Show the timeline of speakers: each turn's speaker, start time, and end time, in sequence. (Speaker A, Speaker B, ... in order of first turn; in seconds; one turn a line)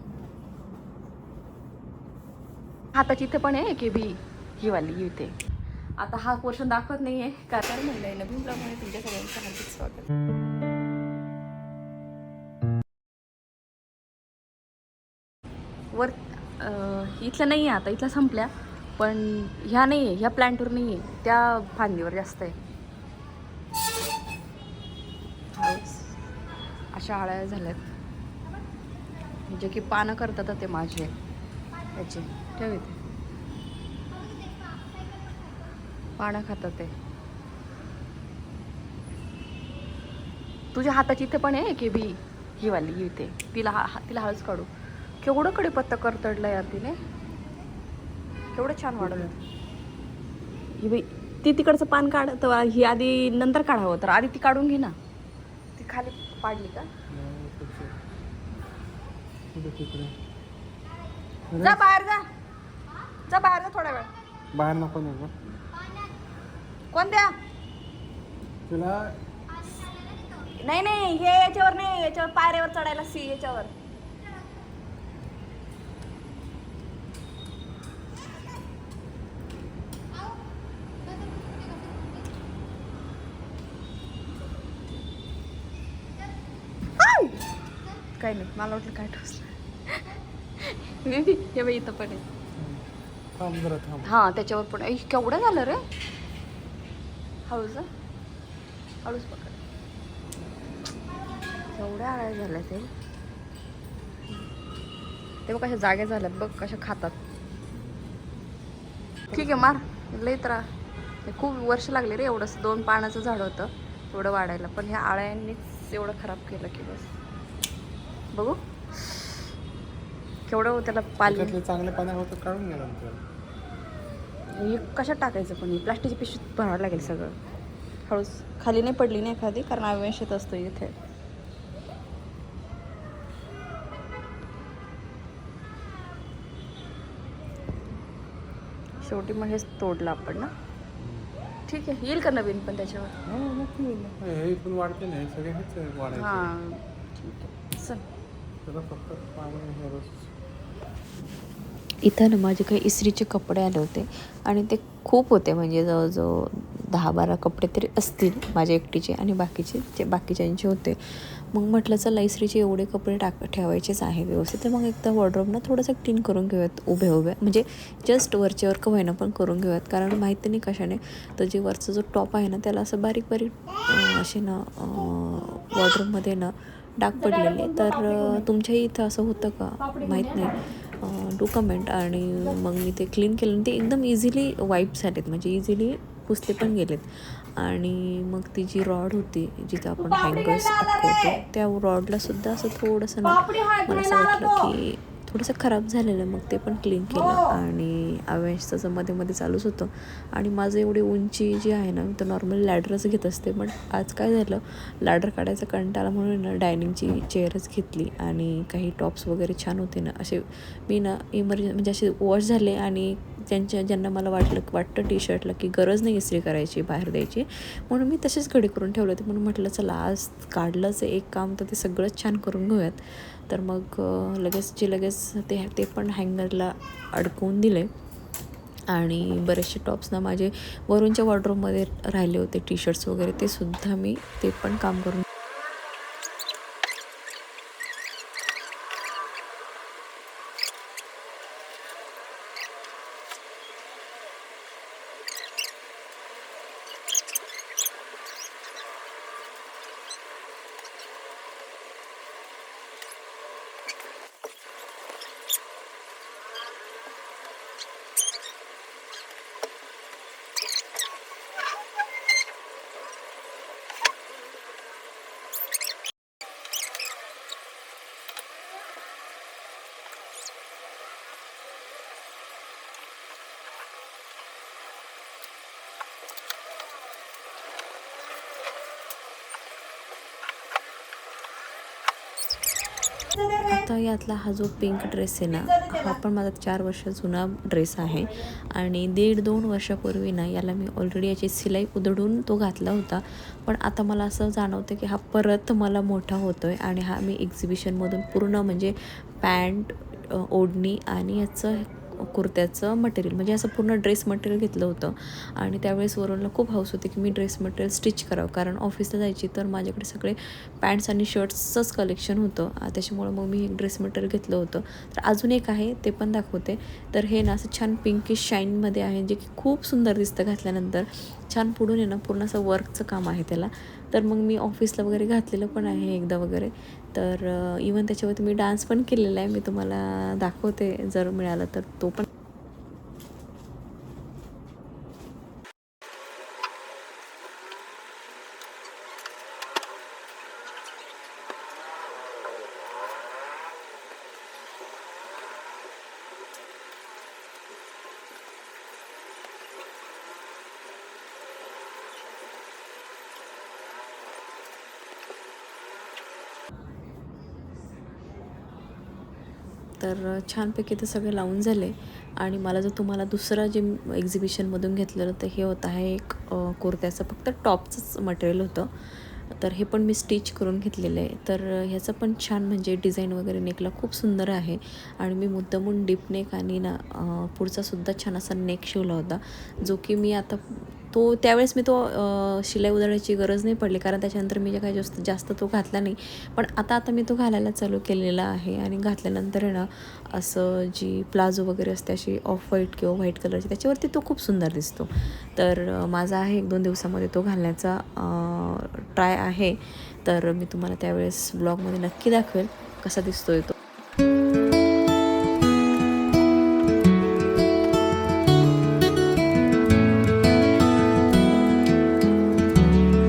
Speaker A: 3.0-5.3
Speaker A: 6.0-10.1
Speaker A: 15.9-22.6
Speaker A: 25.5-26.1
Speaker A: 26.9-27.9
Speaker A: 29.5-31.1
Speaker A: 32.0-33.0
Speaker A: 36.2-36.9
Speaker A: 40.7-44.7
Speaker A: 45.2-47.0
Speaker A: 48.5-49.3
Speaker B: 49.0-49.3
Speaker A: 50.8-55.0
Speaker A: 55.8-56.9
Speaker B: 57.1-57.9
Speaker B: 59.5-60.1
Speaker B: 61.5-61.8
Speaker A: 61.6-62.3
Speaker A: 63.3-64.1
Speaker B: 64.5-65.3
Speaker A: 66.9-67.3
Speaker B: 68.7-69.2
Speaker A: 70.6-73.7
Speaker A: 87.0-87.4
Speaker A: 88.2-90.1
Speaker A: 90.6-92.2
Speaker B: 92.6-92.8
Speaker B: 93.3-94.1
Speaker A: 94.0-95.8
Speaker A: 97.5-97.9
Speaker A: 99.0-99.6
Speaker A: 101.7-102.9
Speaker A: 105.5-107.2
Speaker A: 109.3-110.7
Speaker B: 109.3-109.7
Speaker A: 111.3-117.1
Speaker A: 118.3-119.4
Speaker A: 120.5-121.6
Speaker B: 121.2-123.2
Speaker A: 124.5-127.3
Speaker A: 128.1-130.9
Speaker A: 139.0-140.5
Speaker B: 141.0-141.3
Speaker A: 141.7-143.1
Speaker B: 143.3-146.5
Speaker A: 146.1-148.0
Speaker B: 148.7-150.3
Speaker C: 152.0-161.0
Speaker C: 161.5-227.9
Speaker A: 177.2-178.4
Speaker A: 179.8-180.6
Speaker A: 190.0-191.4
Speaker A: 193.2-194.7
Speaker A: 197.1-197.6
Speaker C: 228.9-235.2
Speaker C: 283.6-332.3
Speaker C: 360.0-403.7